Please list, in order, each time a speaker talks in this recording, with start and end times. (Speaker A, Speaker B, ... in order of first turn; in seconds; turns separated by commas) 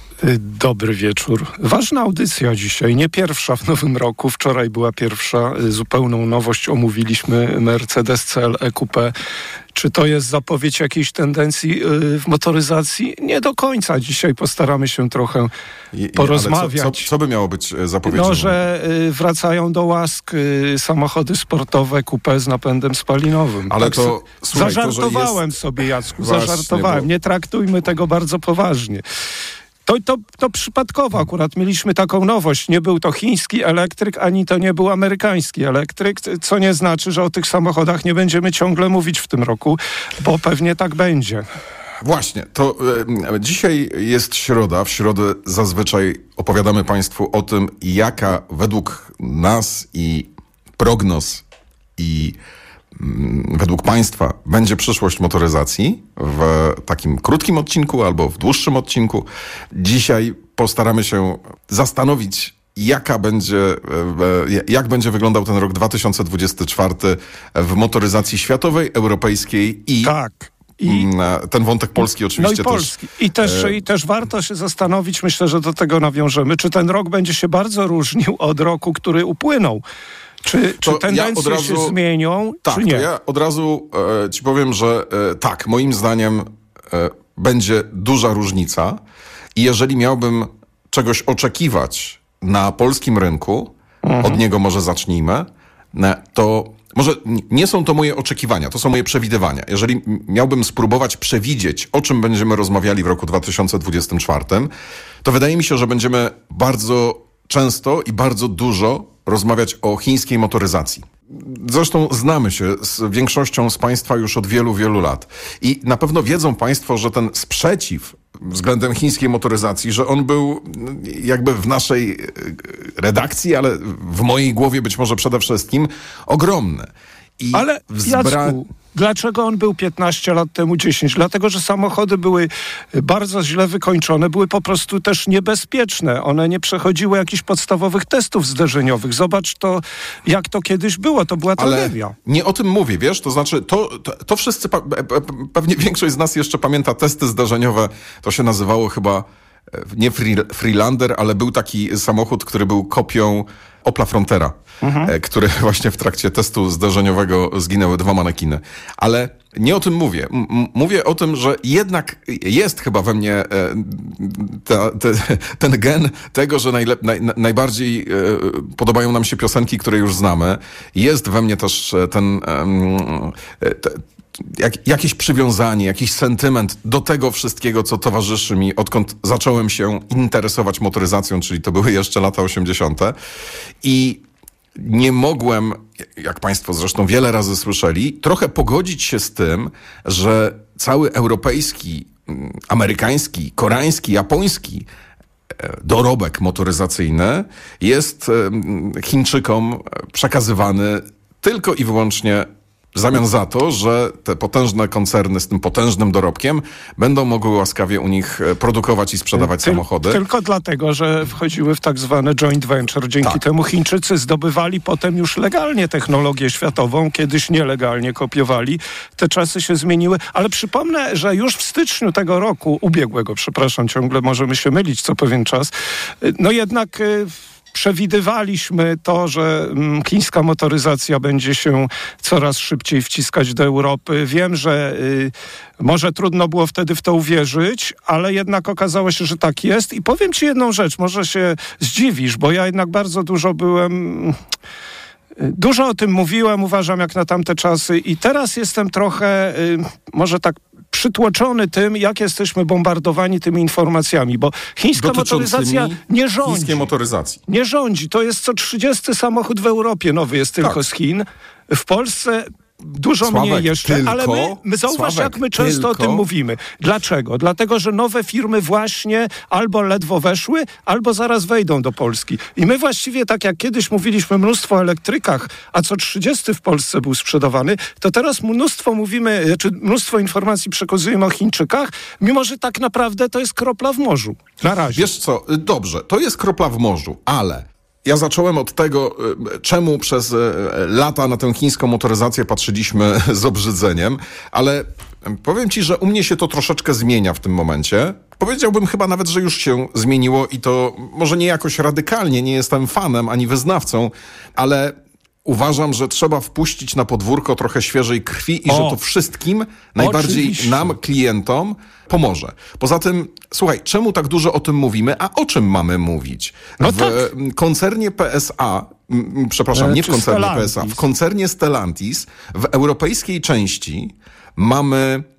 Speaker A: 0.2-9.1, Speaker A: 9.7-15.5, Speaker B: 15.9-18.6, Speaker A: 16.1-17.1, Speaker A: 18.1-29.0, Speaker B: 23.7-25.4, Speaker B: 26.1-27.1, Speaker A: 29.9-41.4, Speaker B: 42.0-51.4, Speaker B: 52.0-52.4, Speaker B: 53.0-70.1, Speaker A: 70.0-71.1, Speaker B: 70.8-73.8, Speaker A: 72.3-79.8, Speaker A: 80.4-83.1, Speaker B: 80.8-82.0, Speaker B: 82.6-89.0, Speaker B: 89.5-104.7, Speaker A: 94.0-94.4, Speaker B: 105.2-128.6, Speaker A: 127.5-142.1, Speaker B: 141.6-183.2, Speaker A: 154.8-155.1, Speaker B: 183.8-184.2, Speaker B: 184.8-194.9, Speaker B: 195.6-210.2, Speaker A: 209.3-244.3, Speaker A: 245.4-256.9, Speaker B: 255.0-257.4, Speaker A: 257.5-285.1, Speaker B: 263.2-266.2, Speaker B: 284.9-325.2, Speaker A: 308.7-309.0, Speaker A: 310.0-310.9, Speaker A: 316.8-317.2, Speaker A: 319.7-321.0